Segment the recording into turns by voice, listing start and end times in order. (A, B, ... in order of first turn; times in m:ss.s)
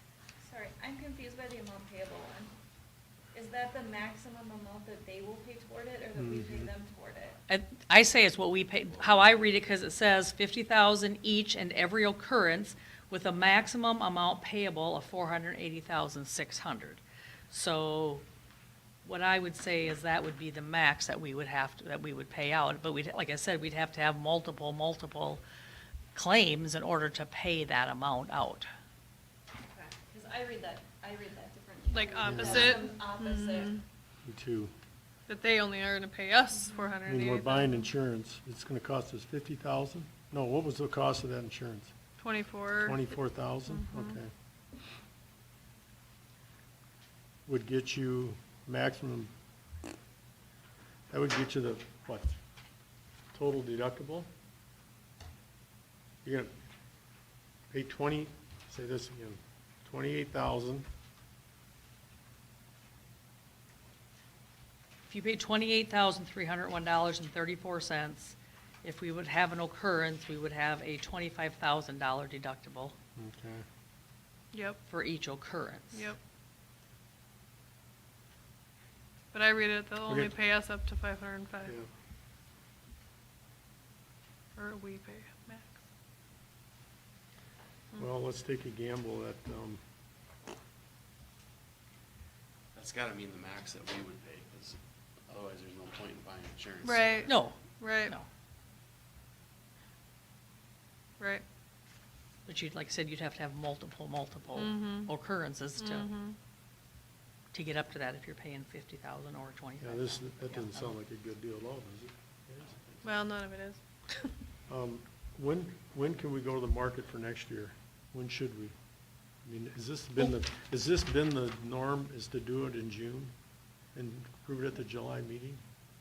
0:00.4-0:02.5 A
0:03.3-0:07.4 A
0:06.2-0:06.7 B
0:07.5-0:18.2 C
0:19.0-0:25.4 C
0:26.1-0:28.7 C
0:29.7-0:33.8 A
0:31.9-0:33.8 D
0:32.2-0:32.8 B
0:34.2-0:34.7 B
0:35.3-0:37.9 D
0:37.0-0:41.9 B
0:42.2-0:43.0 D
0:42.8-0:44.3 B
0:43.7-0:44.2 D
0:47.4-0:49.3 B
0:51.1-0:52.4 B
0:53.3-0:54.3 B
0:56.2-0:56.5 B
0:57.7-1:00.8 B
1:05.1-1:12.9 C
1:13.2-1:13.6 B
1:14.5-1:14.8 D
1:14.9-1:16.0 C
1:15.9-1:16.2 D
1:19.3-1:21.7 D
1:20.1-1:20.3 B
1:24.6-1:25.8 D
1:28.0-1:29.8 B
1:32.7-1:34.8 E
1:35.3-1:37.3 E
1:36.8-1:38.1 D
1:37.2-1:38.2 C
1:41.2-1:41.4 D
1:42.4-1:46.1 C
1:44.5-1:45.1 D
1:45.8-1:46.4 D
1:47.5-1:50.9 C
1:49.8-1:52.8 B
1:53.0-1:54.3 D
1:54.7-1:58.7 B
1:59.4-2:03.3 B
2:03.9-2:05.6 B